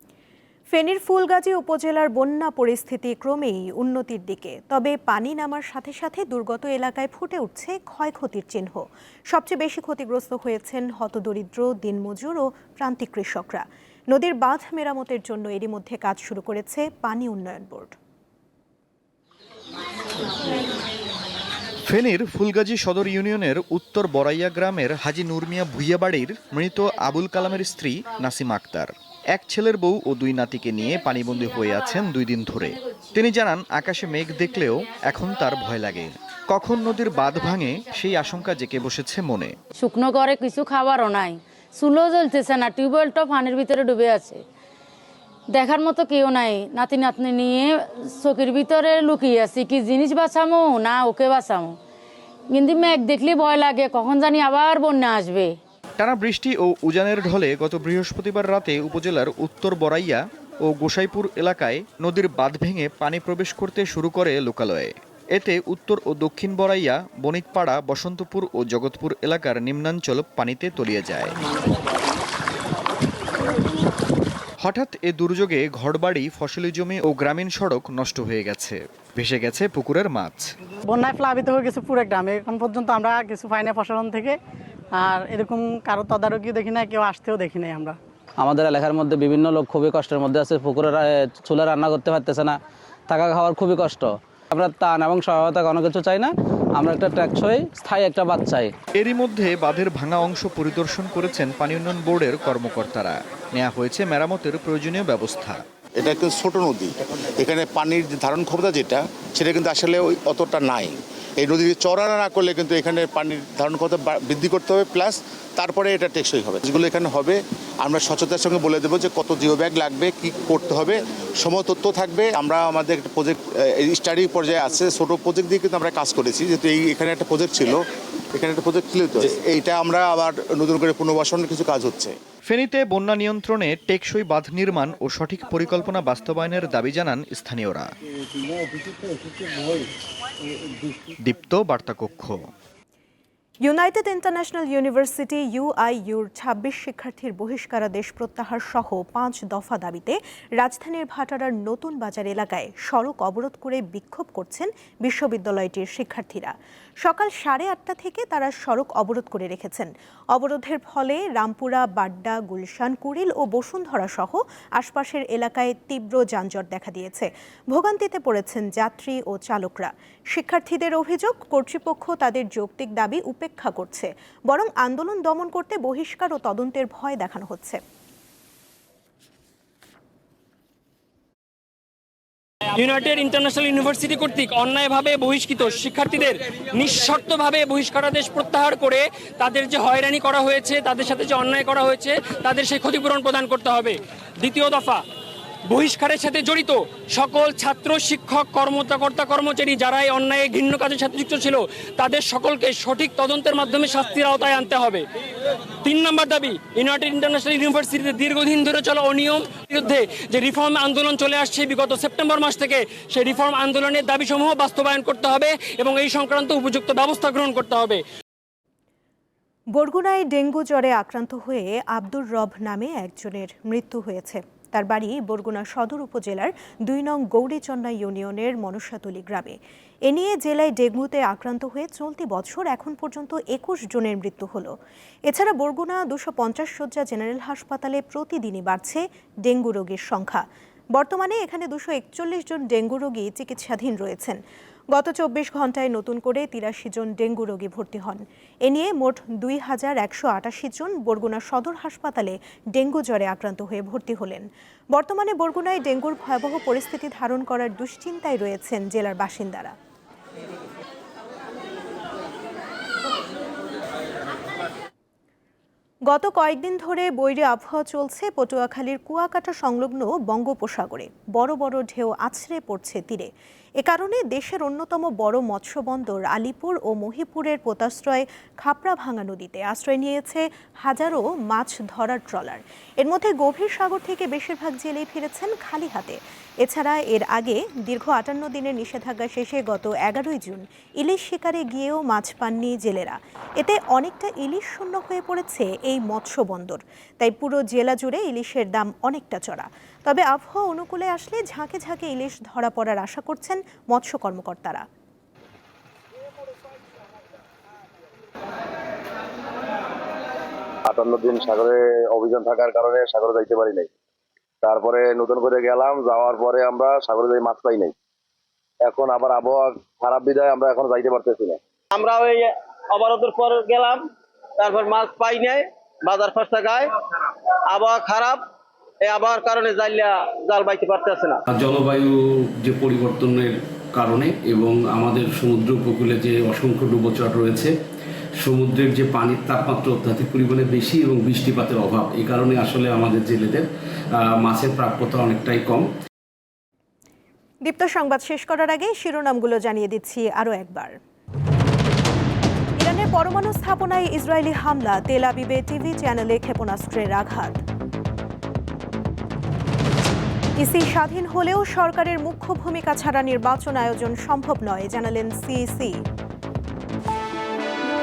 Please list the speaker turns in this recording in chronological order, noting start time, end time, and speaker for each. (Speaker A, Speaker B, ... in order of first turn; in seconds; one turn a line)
Speaker A: 0.7-17.9
Speaker B: 21.9-39.6
Speaker C: 39.7-44.4
Speaker C: 45.5-51.8
Speaker C: 52.5-55.5
Speaker B: 56.0-71.3
Speaker B: 74.6-80.5
Speaker D: 80.9-84.4
Speaker D: 84.9-88.0
Speaker E: 88.4-98.7
Speaker B: 99.0-105.6
Speaker F: 106.0-127.8
Speaker F: 128.3-132.2
Speaker B: 132.5-137.9
Speaker B: 141.2-142.4
Speaker A: 143.6-177.8
Speaker G: 182.8-195.0
Speaker G: 195.7-205.1
Speaker G: 205.8-218.0
Speaker A: 219.7-234.8
Speaker A: 235.3-244.4
Speaker A: 244.9-259.7
Speaker A: 266.1-304.9
Speaker H: 310.9-313.9
Speaker H: 314.6-317.9
Speaker H: 318.8-321.6
Speaker I: 321.9-324.0
Speaker I: 324.6-326.9
Speaker I: 327.7-328.4
Speaker I: 329.1-331.4
Speaker J: 331.5-337.7
Speaker J: 338.4-343.6
Speaker J: 344.2-345.9
Speaker A: 347.6-351.0
Speaker A: 352.8-357.6
Speaker A: 360.6-366.0